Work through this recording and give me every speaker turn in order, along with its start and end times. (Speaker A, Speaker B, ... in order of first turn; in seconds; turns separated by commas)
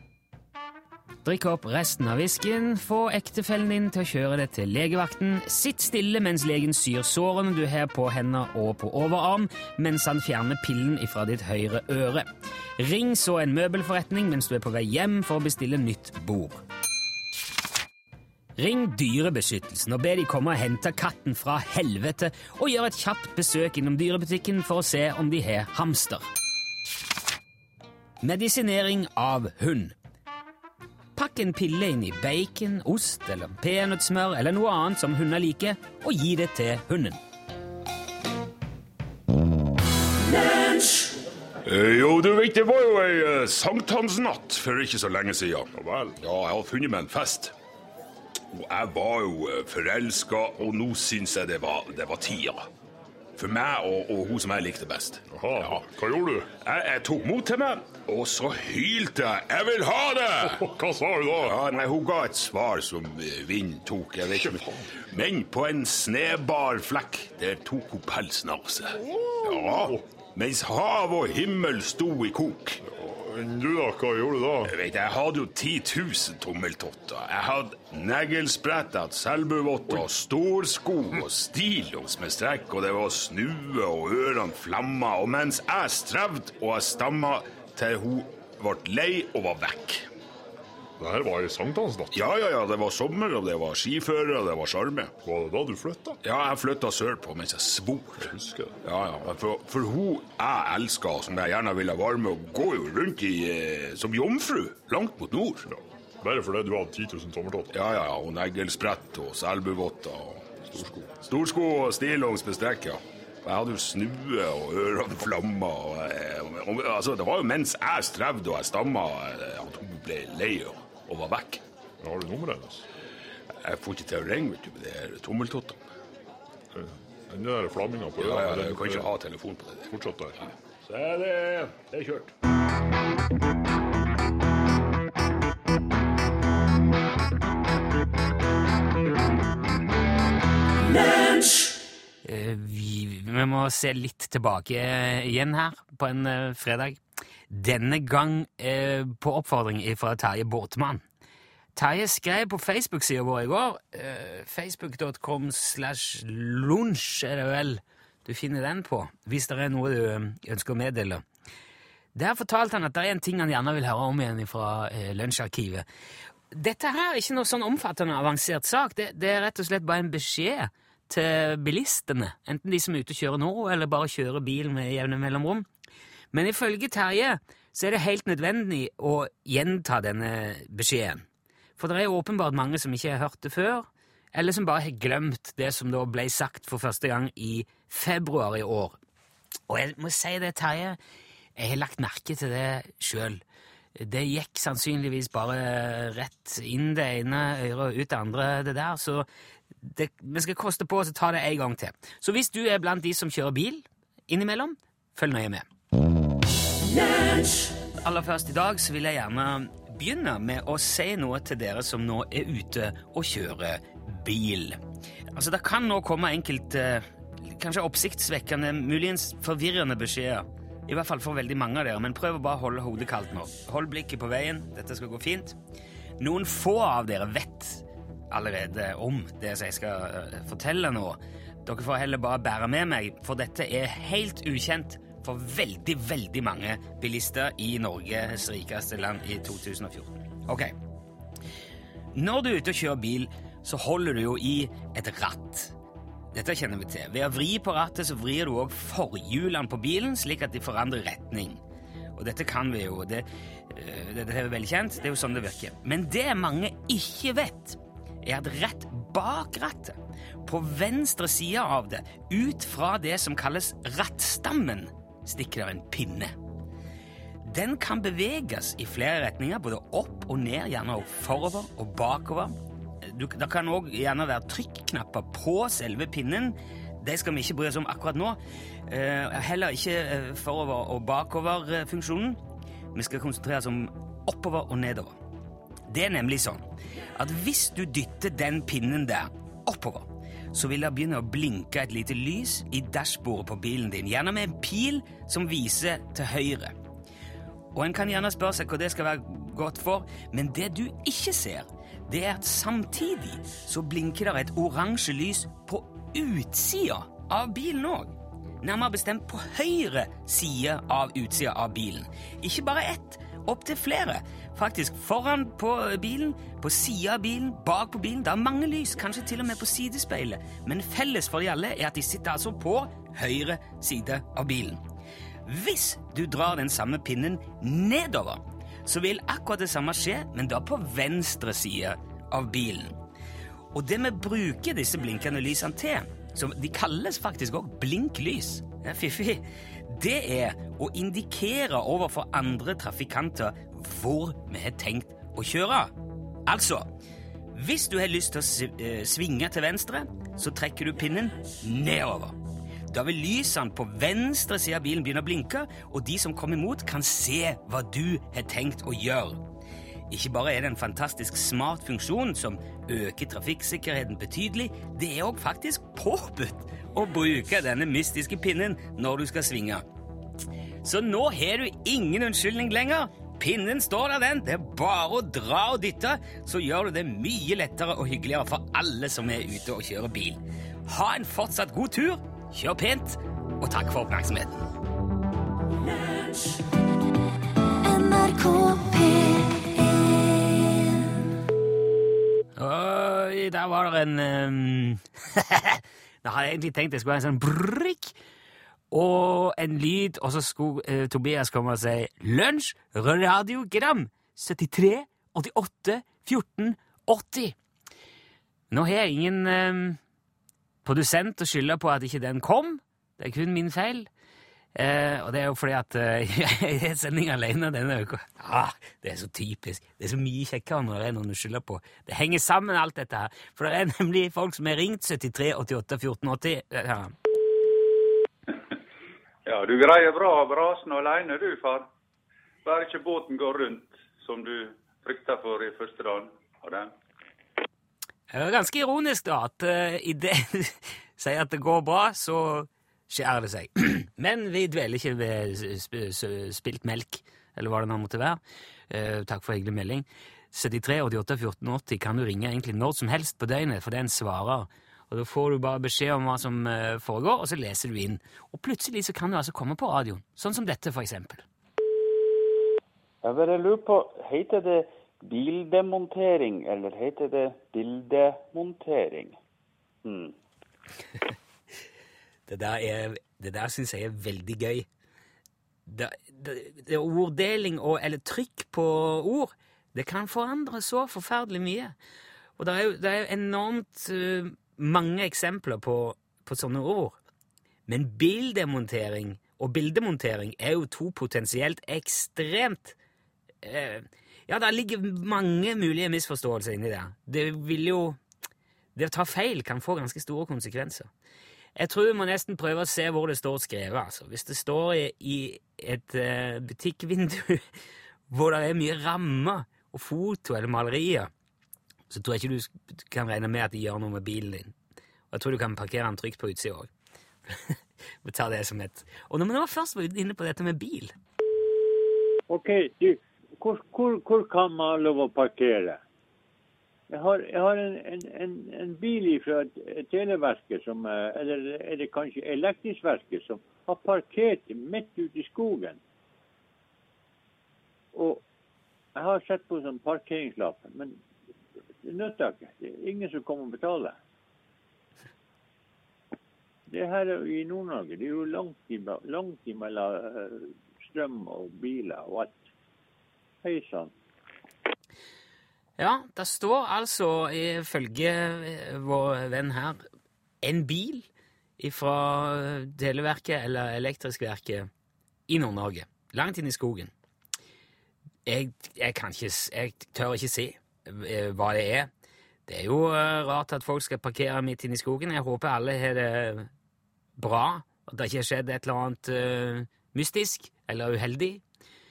Speaker A: 1.2-12.3, Speaker A: 12.8-16.6, Speaker A: 18.6-26.2, Speaker A: 28.2-29.9, Speaker A: 31.1-37.2, Speaker B: 41.7-47.5, Speaker C: 45.8-46.2, Speaker B: 48.5-52.7, Speaker B: 53.4-55.7, Speaker C: 55.3-56.5, Speaker B: 56.6-60.6, Speaker C: 60.4-61.6, Speaker B: 61.4-72.8, Speaker C: 64.3-64.8, Speaker C: 69.2-70.0, Speaker C: 72.8-74.7, Speaker B: 74.6-90.1, Speaker C: 91.0-92.2, Speaker B: 92.1-95.1, Speaker C: 95.2-96.2, Speaker B: 96.2-98.3, Speaker C: 98.2-98.8, Speaker B: 98.8-105.7, Speaker C: 105.7-107.7, Speaker B: 107.7-110.5, Speaker C: 110.7-111.1, Speaker B: 111.2-121.6, Speaker C: 122.0-122.9, Speaker B: 123.6-125.8, Speaker C: 126.7-129.1, Speaker B: 128.2-129.9, Speaker C: 129.9-130.5, Speaker B: 130.9-131.9, Speaker C: 131.9-132.2, Speaker A: 142.2-151.0, Speaker A: 151.8-161.2, Speaker A: 162.2-165.8, Speaker A: 166.5-175.7, Speaker A: 176.3-181.2, Speaker A: 181.8-189.0, Speaker A: 189.7-191.0, Speaker A: 191.6-193.4, Speaker A: 194.0-199.3, Speaker A: 199.8-205.7, Speaker A: 208.0-214.8, Speaker A: 215.3-225.6, Speaker A: 226.2-240.7, Speaker A: 242.2-245.8, Speaker A: 246.3-251.6, Speaker A: 252.2-266.3, Speaker A: 267.4-282.4, Speaker A: 282.9-285.1, Speaker A: 285.9-296.7, Speaker A: 297.7-324.8, Speaker A: 325.4-332.9, Speaker A: 333.7-345.9, Speaker A: 346.5-346.9, Speaker A: 347.5-352.4, Speaker A: 352.9-359.4, Speaker A: 360.1-369.8, Speaker A: 370.8-384.7, Speaker D: 387.8-391.0, Speaker A: 392.6-398.1, Speaker A: 398.9-407.6, Speaker A: 408.7-410.0, Speaker A: 410.8-414.1, Speaker A: 414.8-427.1, Speaker E: 429.5-431.9, Speaker E: 432.6-436.9, Speaker A: 438.3-461.4, Speaker F: 463.2-469.4, Speaker F: 470.0-470.4, Speaker A: 472.5-474.9, Speaker A: 475.9-481.9, Speaker A: 482.6-487.2, Speaker A: 487.9-493.0, Speaker A: 493.6-498.2, Speaker A: 498.9-501.1, Speaker A: 501.8-507.6, Speaker A: 508.3-511.3, Speaker A: 512.1-514.7, Speaker A: 515.3-516.9, Speaker A: 517.5-521.1, Speaker G: 522.5-526.0, Speaker G: 527.1-536.0, Speaker G: 538.1-538.4, Speaker G: 539.1-541.2, Speaker G: 542.0-544.2, Speaker G: 546.9-552.7, Speaker G: 553.6-554.1, Speaker A: 556.0-560.0, Speaker A: 560.6-561.3, Speaker A: 561.8-564.9, Speaker A: 565.5-567.1, Speaker A: 568.5-572.1, Speaker A: 572.7-576.7, Speaker A: 577.4-581.6